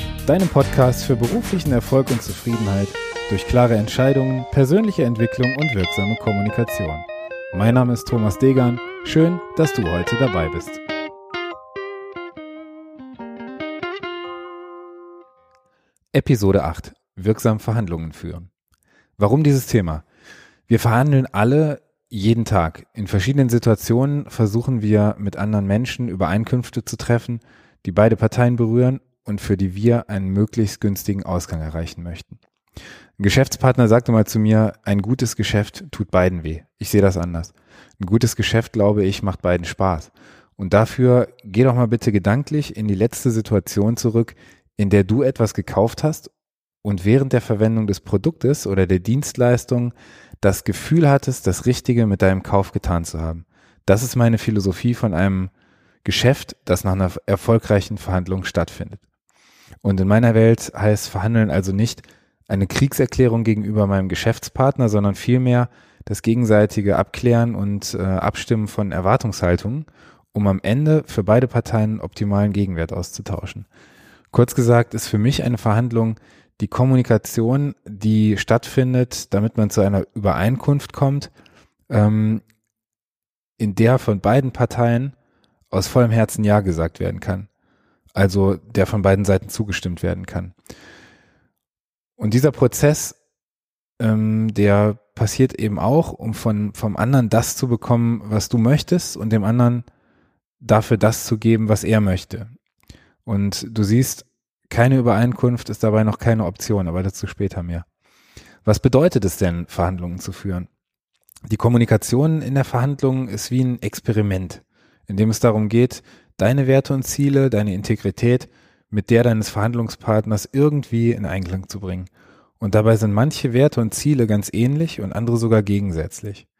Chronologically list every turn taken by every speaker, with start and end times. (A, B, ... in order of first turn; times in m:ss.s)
0:00.2-0:10.8 A
0:16.1-0:18.5 A
0:19.2-0:20.0 A
0:20.7-0:32.4 A
0:33.2-0:46.3 A
0:46.8-0:55.5 A
0:56.0-0:59.0 A
0:59.8-1:13.7 A
1:14.3-1:21.3 A
1:21.9-1:22.4 A
1:23.6-1:25.1 A
1:25.7-1:27.5 A
1:28.1-1:30.5 A
1:32.2-1:33.2 A
1:34.0-1:39.8 A
1:40.6-1:42.5 A
1:43.2-1:47.8 A
1:48.6-1:50.7 A
1:51.5-2:06.4 A